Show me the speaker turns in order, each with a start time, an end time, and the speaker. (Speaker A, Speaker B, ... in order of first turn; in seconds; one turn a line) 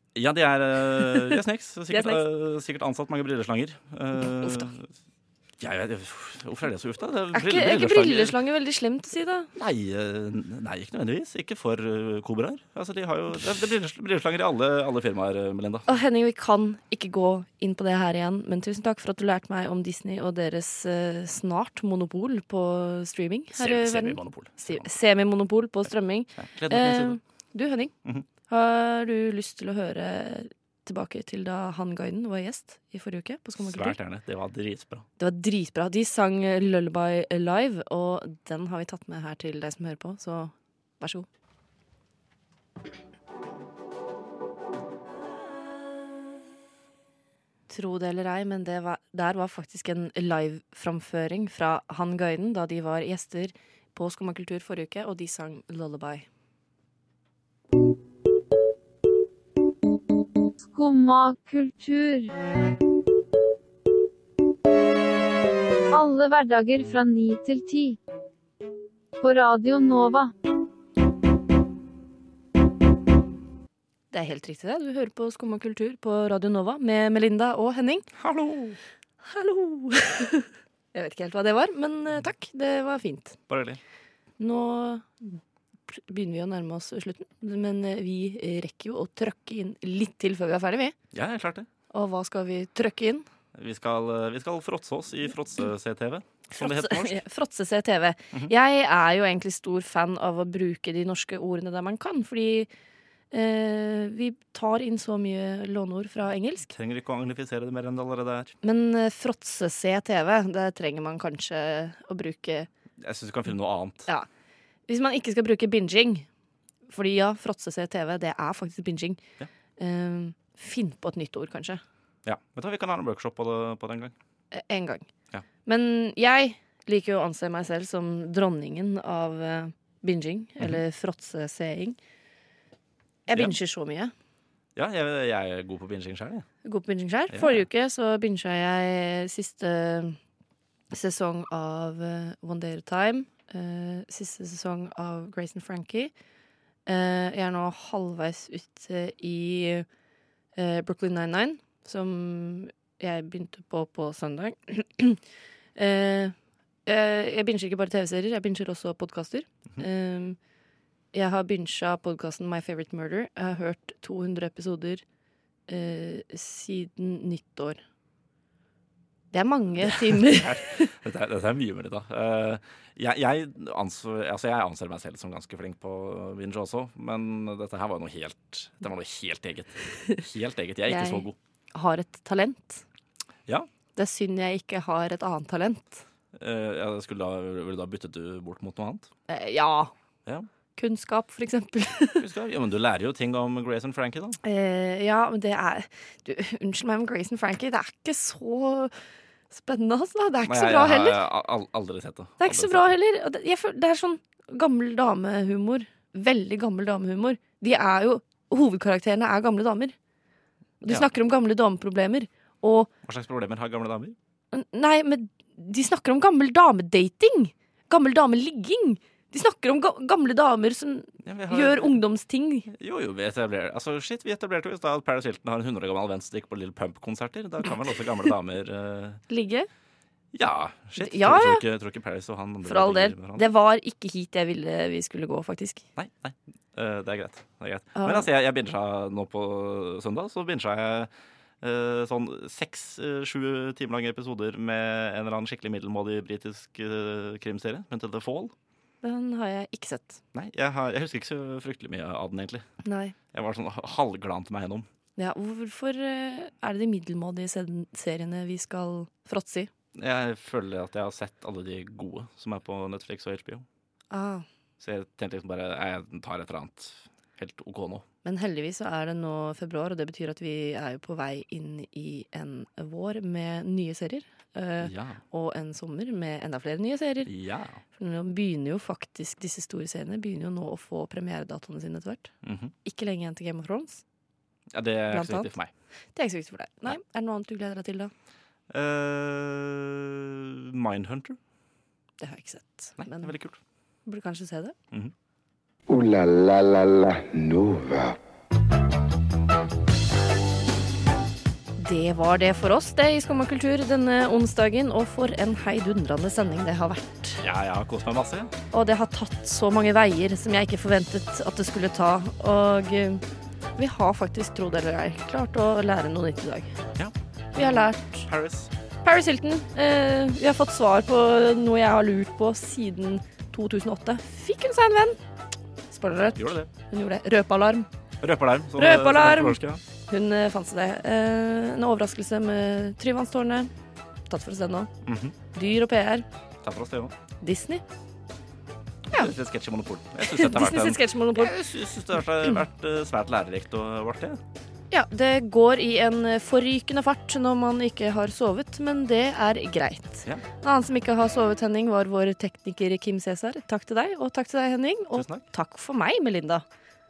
Speaker A: 0.1-4.9
Speaker B: 1.9-2.2
Speaker B: 4.4-4.7
Speaker A: 5.6-8.3
Speaker B: 7.3-9.5
Speaker A: 9.6-15.9
Speaker B: 15.9-27.9
Speaker A: 23.5-24.9
Speaker A: 26.4-27.2
Speaker B: 28.5-34.0
Speaker A: 33.6-35.0
Speaker B: 35.2-41.3
Speaker B: 47.7-56.3
Speaker C: 60.6-62.3
Speaker C: 65.9-68.0
Speaker C: 69.2-70.3
Speaker B: 74.1-78.0
Speaker A: 78.2-78.8
Speaker B: 79.2-83.4
Speaker A: 83.5-83.8
Speaker B: 84.4-90.9
Speaker A: 91.1-91.7
Speaker B: 91.9-93.2
Speaker A: 93.5-97.2
Speaker B: 96.5-102.7
Speaker B: 103.3-106.7
Speaker A: 106.7-108.5
Speaker B: 108.6-112.7
Speaker A: 113.0-114.1
Speaker B: 114.9-116.3
Speaker B: 116.9-119.2
Speaker B: 119.8-121.8
Speaker A: 122.2-124.1
Speaker B: 124.5-125.1
Speaker B: 125.6-132.0
Speaker B: 133.3-134.1
Speaker A: 133.3-133.6
Speaker A: 134.8-136.5
Speaker B: 136.6-140.2
Speaker A: 137.3-137.6
Speaker B: 140.9-146.1
Speaker B: 146.8-149.8
Speaker B: 150.5-155.2
Speaker B: 155.8-156.3
Speaker B: 156.8-160.4
Speaker B: 161.1-165.0
Speaker B: 165.7-167.8
Speaker B: 169.3-170.9
Speaker A: 169.8-181.3
Speaker B: 180.9-182.8
Speaker B: 183.9-186.0
Speaker A: 186.3-189.1
Speaker B: 189.3-189.9
Speaker B: 190.8-192.2
Speaker A: 192.2-194.4
Speaker B: 194.4-198.9
Speaker B: 199.5-201.2
Speaker A: 200.4-202.9
Speaker B: 202.4-209.9
Speaker B: 210.8-212.9
Speaker A: 210.8-211.1
Speaker A: 213.0-214.2
Speaker B: 214.5-222.7
Speaker A: 221.2-222.0
Speaker A: 222.7-229.2
Speaker B: 229.3-229.7
Speaker A: 230.3-233.5
Speaker B: 231.0-231.6
Speaker B: 232.6-235.8
Speaker A: 236.0-241.1
Speaker B: 237.9-238.3
Speaker A: 241.6-248.5
Speaker B: 249.0-250.2
Speaker A: 250.3-252.7
Speaker B: 252.8-253.2
Speaker A: 253.3-254.8
Speaker B: 255.2-259.7
Speaker A: 259.9-263.6
Speaker B: 264.1-264.4
Speaker A: 264.8-268.0
Speaker B: 268.2-277.3
Speaker A: 274.8-275.2
Speaker A: 277.2-277.8
Speaker B: 277.9-282.3
Speaker A: 282.4-282.7
Speaker B: 282.8-284.0
Speaker A: 284.7-285.7
Speaker B: 285.1-285.5
Speaker B: 286.1-288.1
Speaker A: 288.7-291.4
Speaker B: 292.2-293.3
Speaker A: 293.0-293.6
Speaker B: 294.1-294.7
Speaker D: 295.9-298.2
Speaker B: 301.8-307.4
Speaker A: 307.4-308.5
Speaker B: 308.7-313.2
Speaker B: 313.8-316.8
Speaker A: 316.9-317.6
Speaker B: 317.5-318.3
Speaker A: 318.2-318.7
Speaker B: 319.0-325.2
Speaker B: 325.9-327.9
Speaker A: 326.4-326.7
Speaker A: 328.2-329.8
Speaker B: 328.8-333.7
Speaker B: 334.3-334.9
Speaker A: 335.0-335.3
Speaker B: 335.5-336.2
Speaker A: 336.6-337.1
Speaker B: 337.4-337.8
Speaker A: 339.1-344.4
Speaker B: 340.2-341.5
Speaker B: 344.9-356.6
Speaker A: 355.1-355.4